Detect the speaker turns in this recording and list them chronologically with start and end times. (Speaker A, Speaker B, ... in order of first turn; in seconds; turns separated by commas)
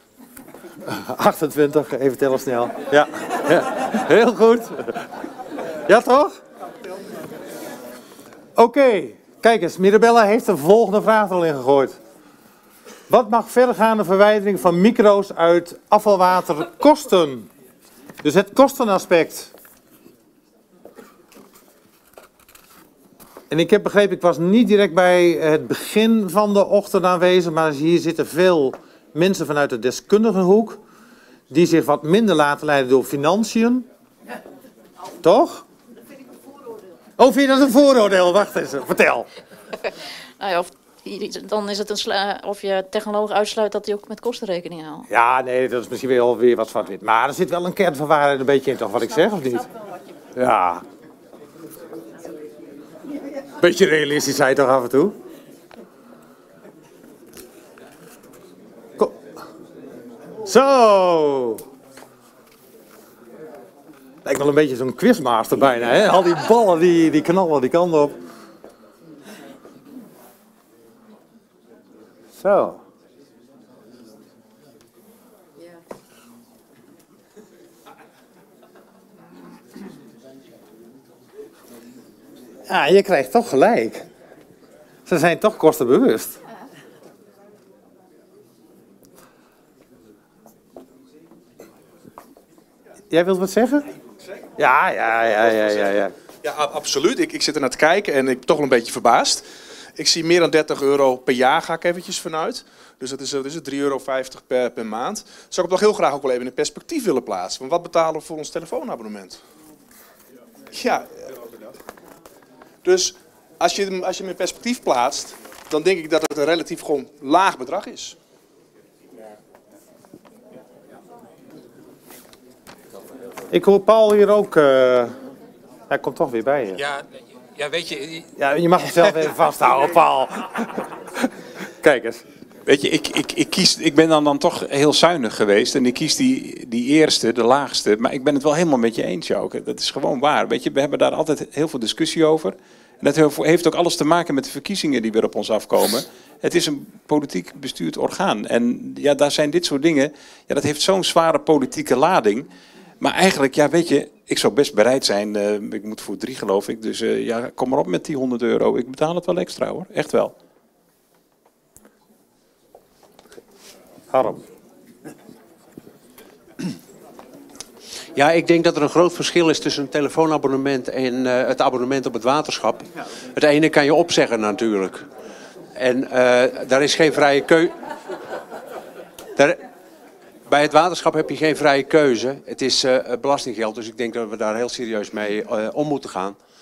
Speaker A: 0.8-5.1, Speaker A: 5.8-6.4, Speaker A: 8.6-12.0, Speaker A: 13.1-17.5, Speaker A: 18.2-19.5, Speaker A: 23.5-30.8, Speaker A: 31.5-33.9, Speaker A: 35.2-35.6, Speaker A: 37.2-39.3, Speaker B: 40.4-45.1, Speaker A: 45.1-49.7, Speaker A: 50.3-50.8, Speaker A: 53.6-55.2, Speaker A: 60.4-61.6, Speaker A: 64.2-68.2, Speaker A: 72.3-72.8, Speaker A: 82.7-84.1, Speaker A: 85.0-86.4, Speaker A: 93.1-93.8, Speaker A: 94.6-96.1, Speaker C: 96.4-109.4, Speaker C: 110.7-111.7, Speaker C: 112.8-118.2, Speaker A: 123.5-125.1, Speaker A: 125.9-126.8, Speaker D: 127.6-128.3, Speaker A: 128.4-130.7, Speaker A: 131.8-132.2, Speaker D: 132.7-152.5, Speaker D: 153.0-160.3, Speaker A: 164.1-164.4, Speaker E: 168.1-175.1, Speaker E: 175.8-177.7, Speaker E: 180.4-186.4